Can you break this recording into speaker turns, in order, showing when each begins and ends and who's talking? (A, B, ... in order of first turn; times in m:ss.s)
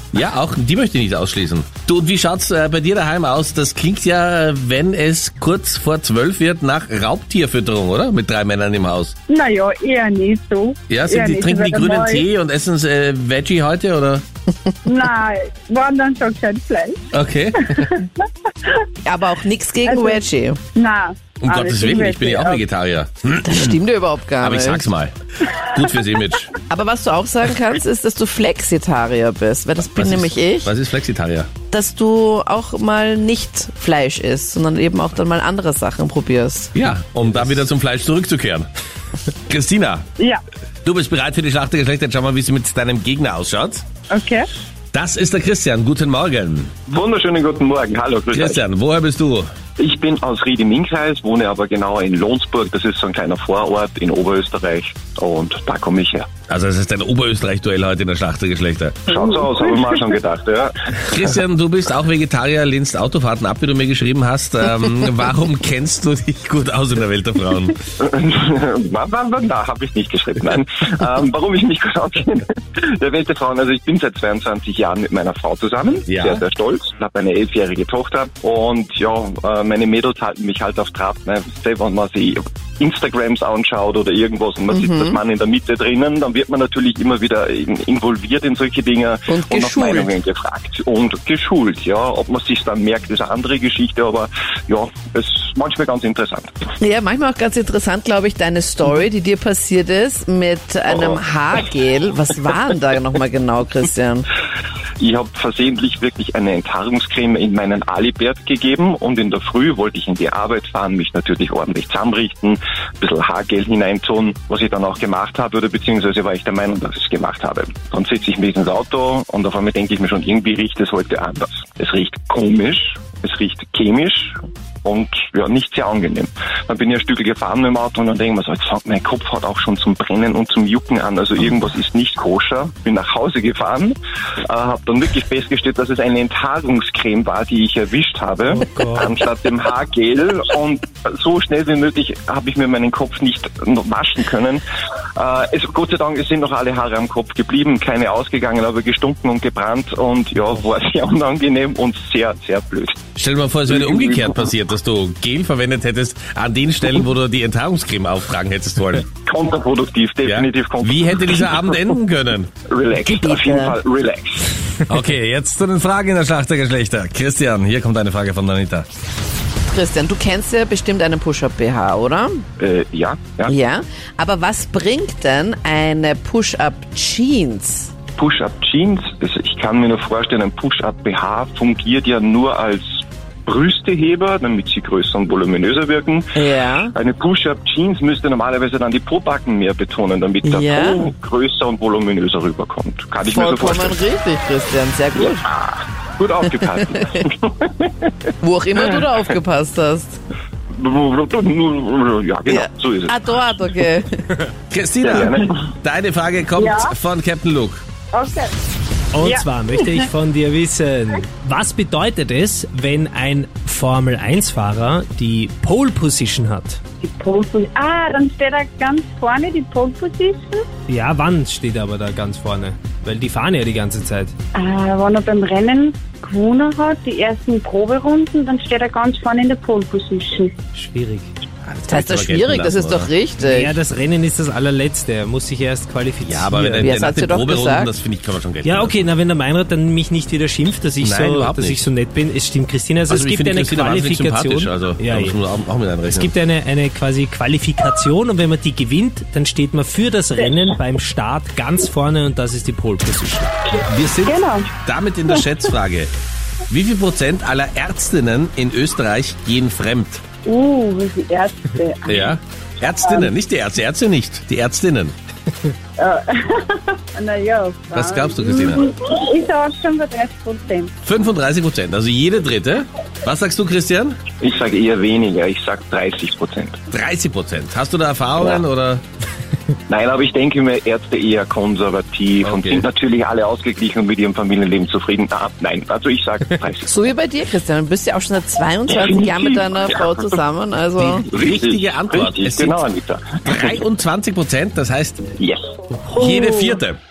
0:00.1-0:09.1 A
0:09.3-0:12.2 B
0:10.9-0:14.2 A
0:14.8-0:17.0 B
0:17.1-0:17.9 A
0:17.7-0:18.8 B
0:19.0-0:20.6 C
0:19.9-0:20.2 B
0:20.7-0:22.6 B
0:21.4-0:23.8 A
0:23.4-0:24.9 C
0:24.4-0:26.5 A
0:26.7-0:30.7 C
0:29.9-0:31.5 A
0:31.7-0:36.7 C
0:36.7-0:38.7 A
0:39.5-0:40.0 A
0:40.8-0:43.8 A
0:44.1-0:44.4 B
0:44.9-0:46.7 A
0:46.9-0:48.6 D
0:48.3-0:49.5 A
0:49.8-0:56.3 D
0:56.5-0:59.1 A
0:59.1-1:00.9 D
1:01.0-1:07.8 A
1:08.0-1:36.6 D
1:16.1-1:16.4 A
1:24.7-1:25.2 C
1:29.3-1:30.1 C
1:36.8-1:44.3 C
1:45.0-2:24.6 D
2:18.5-2:19.1 E
2:25.2-2:33.0 D
2:33.2-2:39.0 A
2:33.7-2:34.5 D
2:39.2-2:41.7 D
2:40.2-2:42.5 A
2:42.7-2:44.6 D
2:43.0-2:43.8 C
2:44.9-2:48.9 A
2:49.7-2:52.4 C
2:52.6-2:53.5 D
2:53.5-2:57.9 C
2:58.2-3:06.4 D
3:06.4-3:06.9 C
3:06.9-3:14.0 D
3:10.4-3:11.1 C
3:13.3-3:15.4 C
3:15.2-3:18.1 D
3:16.9-3:17.2 C
3:18.4-3:20.2 C
3:20.7-3:23.2 D
3:22.4-3:24.4 C
3:24.7-3:27.8 A
3:25.0-3:25.6 D
3:26.6-3:26.9 B
3:28.1-3:28.5 B
3:29.1-3:36.8 E
3:37.0-3:40.6 B
3:40.9-3:44.3 E
3:44.5-3:50.6 B
3:50.7-3:51.3 E
3:51.6-3:53.1 A
3:51.9-3:53.8 C
3:53.4-3:56.9 E
3:56.2-3:59.0 A
3:56.8-3:57.9 C
3:58.6-4:05.4 E
4:01.0-4:01.8 A
4:03.1-4:06.3 A
4:06.1-4:13.5 E
4:13.8-4:16.1 A
4:14.2-4:14.7 B
4:16.7-4:20.2 A
4:20.4-4:22.4 B
4:22.1-4:25.1 A
4:23.0-4:23.3 B
4:26.0-4:30.9 B
4:27.9-4:28.8 A
4:31.0-4:34.2 A
4:34.4-4:36.8 D
4:36.9-4:39.0 A
4:38.4-4:38.6 D
4:39.9-4:47.0 D
4:42.4-4:42.9 A
4:46.9-4:51.2 C
4:48.9-4:50.3 D
4:51.0-4:52.8 A
4:51.3-4:53.8 D
4:53.4-4:55.2 A
4:55.4-4:55.6 D
4:55.9-4:56.8 E
4:56.2-4:57.0 A